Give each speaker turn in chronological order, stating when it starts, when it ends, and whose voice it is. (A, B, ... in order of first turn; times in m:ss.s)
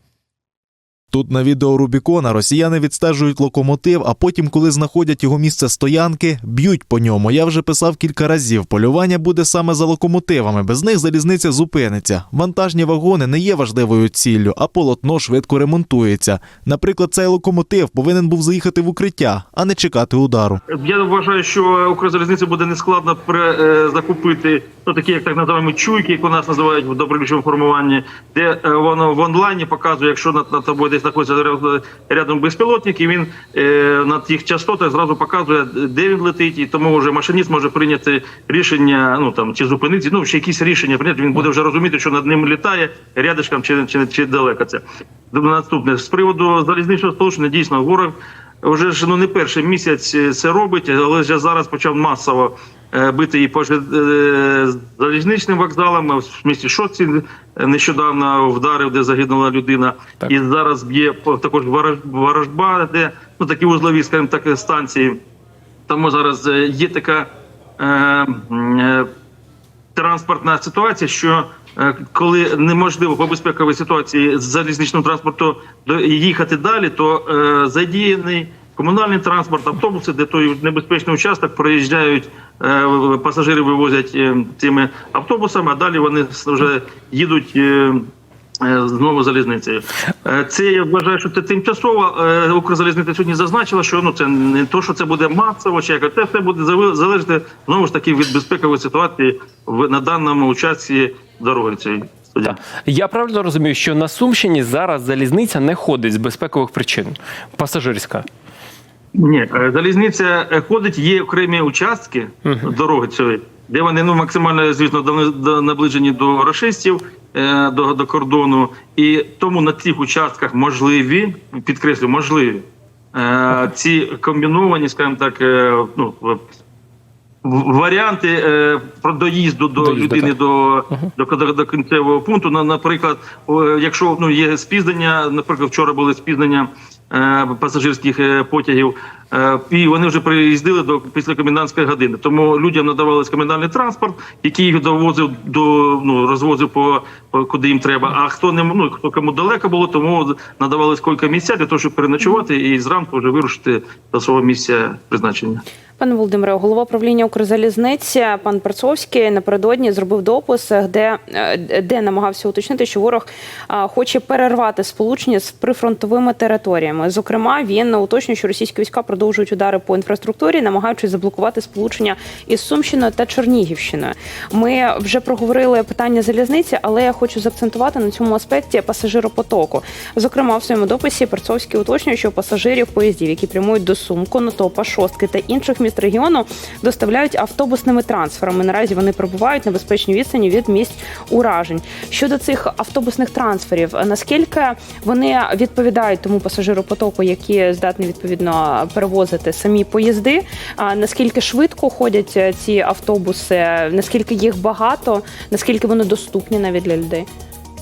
0:01.1-0:20.6 A
0:20.7-1:05.2 B
1:05.9-1:09.1 B
1:10.0-1:28.1 B
1:28.6-1:42.6 B
1:42.4-1:48.3 C
1:49.2-2:06.4 B
1:52.4-1:52.7 C
2:07.4-2:35.6 B
2:09.8-2:10.4 C
2:36.0-3:27.3 D